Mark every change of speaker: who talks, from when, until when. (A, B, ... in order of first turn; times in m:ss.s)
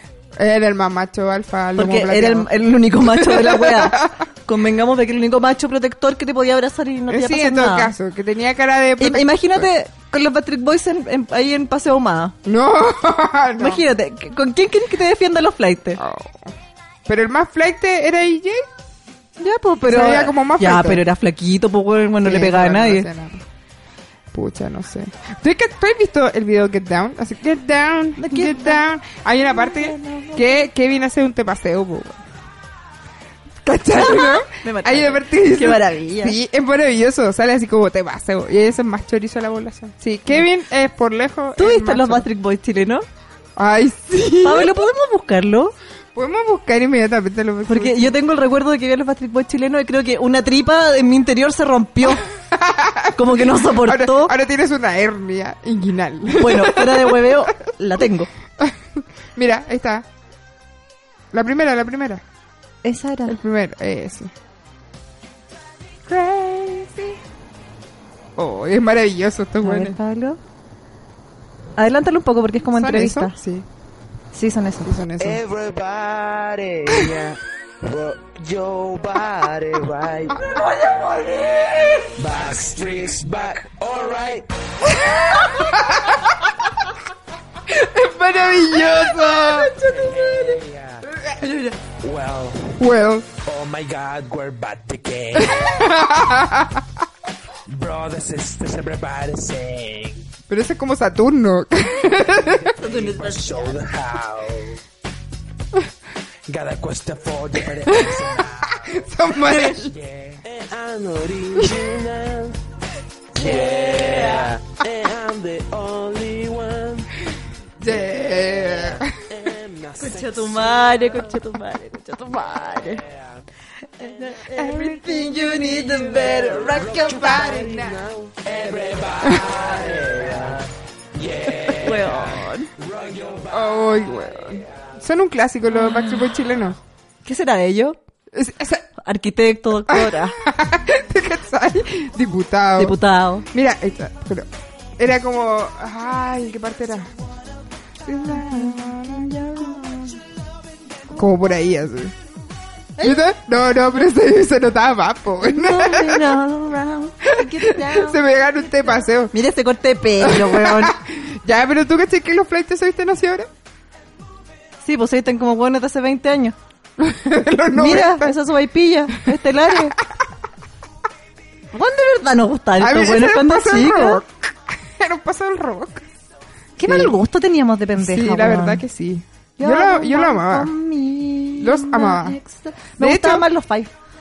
0:00.4-0:04.1 A
0:01.8-0:07.9 B
0:07.1-0:09.7 A
0:09.0-0:12.4 B
0:12.4-0:13.9 A
0:13.6-0:16.0 B
0:16.0-0:16.5 A
0:17.1-0:18.7 A
0:19.4-0:23.1 B
0:19.9-0:21.0 A
0:22.2-0:23.4 A
0:24.3-0:32.2 A
0:28.2-0:28.8 B
0:29.5-0:30.7 B
0:33.6-0:42.3 A
0:33.9-0:36.4 B
0:41.6-0:43.0 B
0:43.6-0:44.7 A
0:44.4-0:45.7 B
0:46.1-0:48.2 A
0:47.7-0:52.2 B
0:52.4-0:57.5 A
0:53.2-0:54.3 B
0:56.4-0:58.3 B
0:58.6-1:00.1 A
1:01.3-1:02.2 A
1:02.8-1:03.4 B
1:03.3-1:04.3 A
1:06.0-1:07.2 A
1:08.4-1:10.0 A
1:09.6-1:10.4 B
1:11.8-1:13.3 B
1:12.7-1:13.7 A
1:14.3-1:14.9 B
1:14.8-1:15.4 A
1:15.2-1:21.2 C
1:22.0-1:25.4 C
1:25.2-1:26.1 A
1:27.7-1:29.8 A
1:29.1-1:35.9 C
1:29.8-1:30.5 B
1:32.8-1:33.3 A
1:35.4-1:36.8 A
1:37.7-1:40.3 C
1:40.5-1:42.7 A
1:42.5-1:44.8 C
1:42.8-1:43.8 B
1:46.5-1:49.1 C
1:47.9-1:48.2 A
1:48.9-1:49.9 A
1:49.4-1:49.8 B
1:49.7-1:52.6 C
1:53.3-1:57.1 C
1:57.8-1:59.2 A
1:58.5-2:01.1 C
2:00.0-2:03.0 B
2:02.9-2:03.4 C
2:04.0-2:07.5 B
2:04.5-2:05.4 A
2:05.2-2:10.6 C
2:06.9-2:08.0 A
2:11.1-2:14.6 C
2:11.8-2:12.7 B
2:13.5-2:16.8 A
2:17.2-2:18.0 B
2:18.3-2:18.9 A
2:19.0-2:20.4 B
2:19.9-2:23.0 A
2:22.8-2:23.4 B
2:23.5-2:24.5 A
2:25.0-2:27.1 A
2:28.0-2:30.0 A
2:28.3-2:29.9 B
2:31.1-2:32.1 A
2:33.0-2:33.2 B
2:33.0-2:36.3 A
2:35.4-2:38.2 B
2:37.4-2:39.3 A
2:39.3-2:41.0 B
2:40.2-2:43.5 A
2:44.8-2:46.5 B
2:47.0-2:48.4 A
2:47.7-2:50.0 B
2:49.7-2:50.0 A
2:51.7-2:54.2 B
2:52.8-2:56.0 A
2:56.8-2:58.8 B
2:56.8-2:57.1 A
2:58.0-3:00.7 A
2:59.6-3:03.9 B
3:01.6-3:02.4 A
3:03.0-3:03.5 A